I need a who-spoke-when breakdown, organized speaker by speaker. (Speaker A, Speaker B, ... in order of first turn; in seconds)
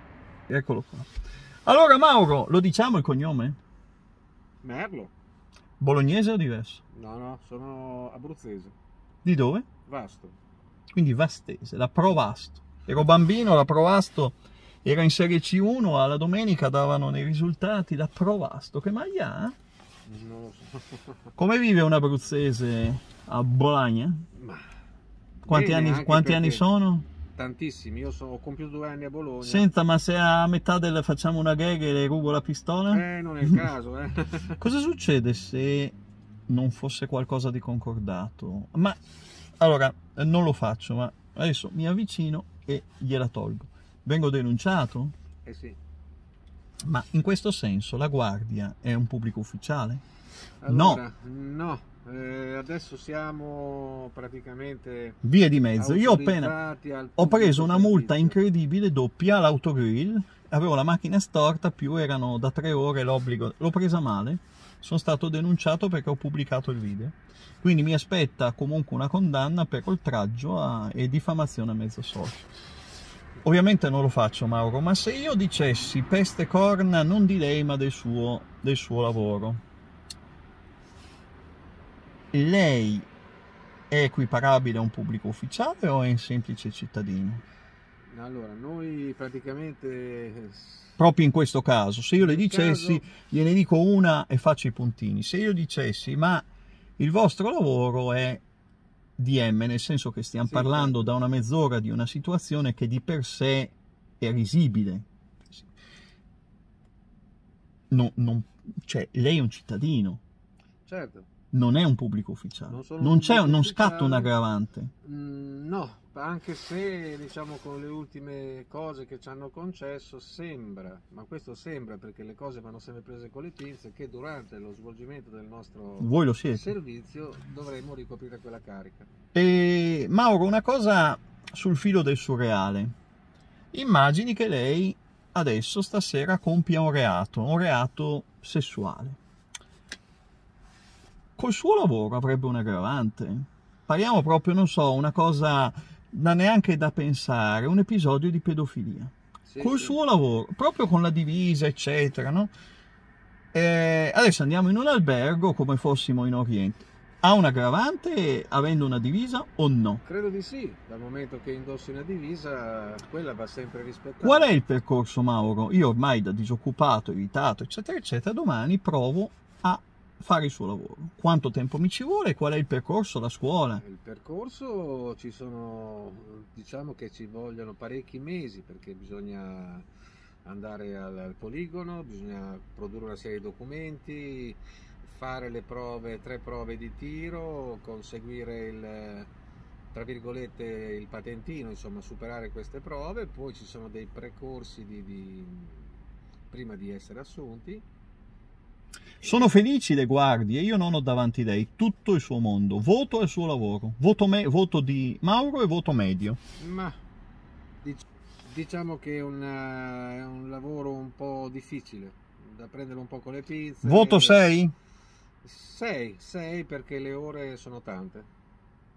Speaker A: 0.5-1.1, 1.7-3.6, 5.8-6.8, 9.2-9.7, 10.9-19.6, 21.4-24.2, 25.5-27.1, 29.4-33.6, 34.6-36.0, 36.5-39.0, 39.6-45.1, 46.9-50.0, 50.7-51.0, 55.2-56.5, 57.2-72.5, 73.4-79.6, 82.3-83.1, 83.9-87.4, 91.0-96.5, 97.0-98.4, 99.2-105.7, 107.9-110.2, 111.5-114.9, 126.0-126.7, 129.3-132.9, 133.7-139.2, 141.4-152.5, 153.5-160.0, 164.2-173.8, 199.2-206.4, 213.8-214.7
Speaker B: 4.6-5.1, 6.9-8.8, 9.9-10.4, 20.1-21.2, 24.3-24.7, 25.5-26.6, 27.4-29.7, 32.9-34.6, 45.5-45.8, 50.6-55.2, 55.8-58.4, 88.1-91.0, 92.2-93.1, 100.5-101.1, 110.9-111.3, 112.7-114.3, 115.0-129.1, 149.5-150.0, 160.1-164.5, 173.8-179.9, 180.4-189.3, 189.9-196.0, 196.5-197.8, 199.2-199.6, 206.6-207.0, 207.8-214.5, 215.4-218.3